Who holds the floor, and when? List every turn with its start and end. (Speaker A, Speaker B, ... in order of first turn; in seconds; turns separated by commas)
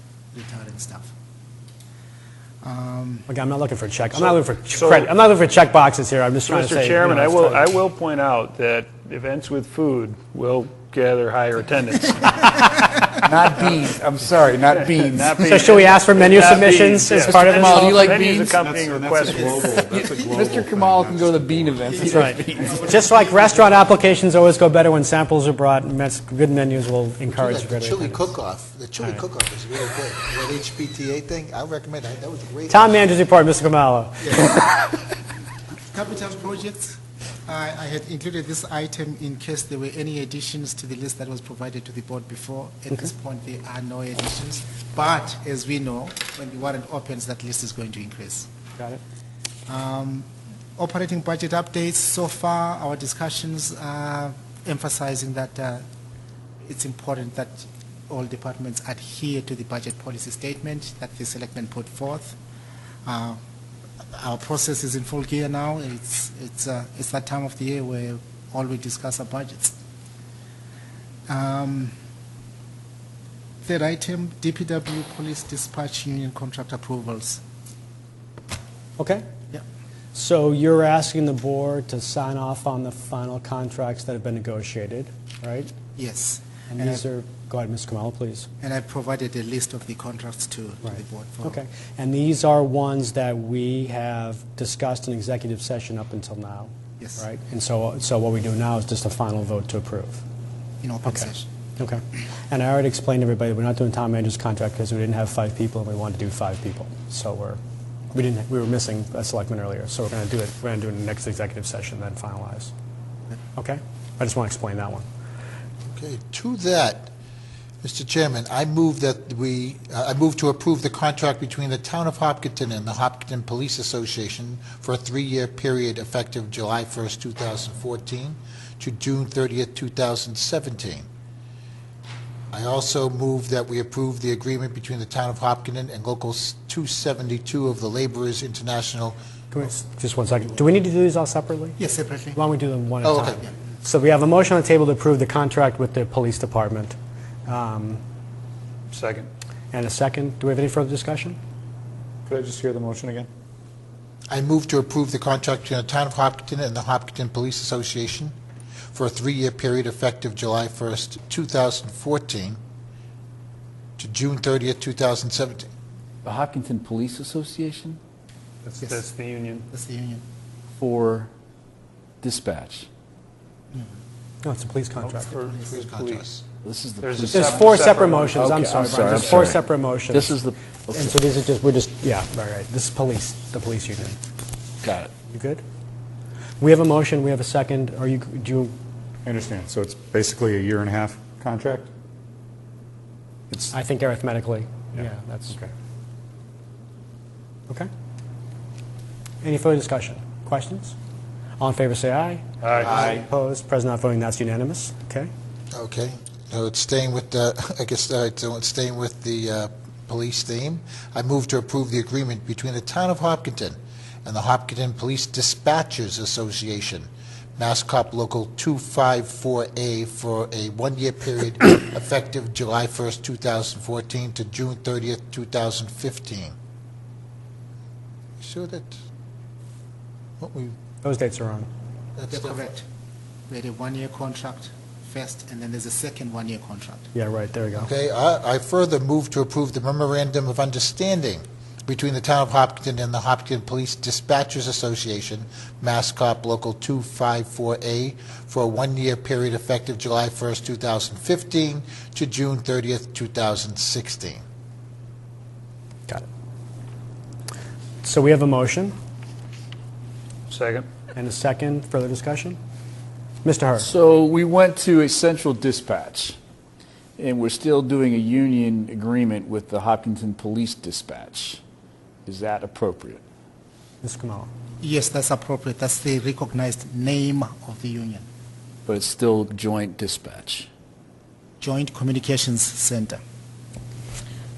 Speaker A: 0.3-1.1, Speaker A: 2.6-3.3, Speaker B: 3.3-7.7, Speaker C: 4.7-5.1, Speaker C: 6.5-12.6, Speaker D: 13.2-15.4, Speaker E: 13.2-14.0, Speaker C: 14.7-19.9, Speaker E: 14.9-15.4, Speaker B: 15.4-18.0, Speaker E: 17.1-18.6, Speaker D: 17.8-22.7, Speaker A: 19.3-20.1, Speaker E: 19.8-22.8, Speaker B: 22.0-28.3, Speaker F: 27.3-33.0, Speaker B: 32.7-34.6, Speaker A: 35.9-48.5, Speaker A: 49.7-55.8, Speaker A: 56.7-62.4, Speaker A: 63.0-63.4, Speaker A: 64.1-69.8, Speaker A: 71.3-71.9, Speaker A: 73.6-77.4, Speaker B: 79.0-79.2, Speaker B: 80.1-85.7, Speaker A: 86.0-87.0, Speaker B: 86.7-88.5, Speaker A: 88.6-91.6, Speaker B: 90.8-100.2, Speaker A: 97.0-97.2, Speaker A: 100.8-101.5, Speaker B: 101.8-107.6, Speaker B: 108.1-112.7, Speaker B: 113.5-115.0, Speaker F: 115.9-117.1, Speaker F: 117.8-131.0, Speaker F: 132.5-139.2, Speaker B: 139.5-141.8, Speaker A: 141.8-142.4, Speaker B: 142.3-146.9, Speaker F: 143.0-143.4, Speaker B: 147.5-148.0, Speaker C: 148.9-149.3, Speaker B: 149.7-151.4, Speaker D: 152.3-153.3, Speaker F: 154.3-158.3, Speaker F: 158.9-162.6, Speaker F: 164.0-165.7, Speaker E: 166.2-168.0, Speaker C: 168.6-169.7, Speaker A: 168.8-169.0, Speaker A: 169.7-170.2, Speaker E: 170.8-171.3, Speaker E: 172.2-172.9, Speaker B: 174.4-175.3, Speaker C: 175.0-176.3, Speaker F: 175.3-176.4, Speaker E: 176.6-177.8, Speaker C: 177.0-178.3, Speaker B: 177.3-180.3, Speaker E: 178.3-181.1, Speaker B: 180.9-184.2, Speaker E: 184.8-185.1, Speaker B: 185.3-185.6, Speaker B: 186.6-188.7, Speaker D: 189.2-191.9, Speaker B: 193.7-195.7, Speaker B: 199.4-200.9, Speaker B: 201.6-205.3, Speaker C: 202.6-203.2, Speaker F: 205.7-226.5, Speaker F: 228.4-228.9, Speaker F: 230.4-230.8, Speaker B: 231.0-231.7, Speaker F: 232.2-232.7, Speaker A: 232.3-232.8, Speaker A: 233.5-237.1, Speaker B: 237.1-237.9, Speaker F: 237.7-254.4, Speaker B: 258.0-258.9, Speaker C: 260.5-260.9, Speaker B: 261.1-262.6, Speaker B: 263.4-263.9, Speaker E: 263.8-266.4, Speaker E: 267.2-271.6, Speaker E: 272.2-273.2, Speaker B: 274.0-274.5, Speaker A: 274.8-278.2, Speaker E: 278.9-280.7, Speaker A: 281.6-283.2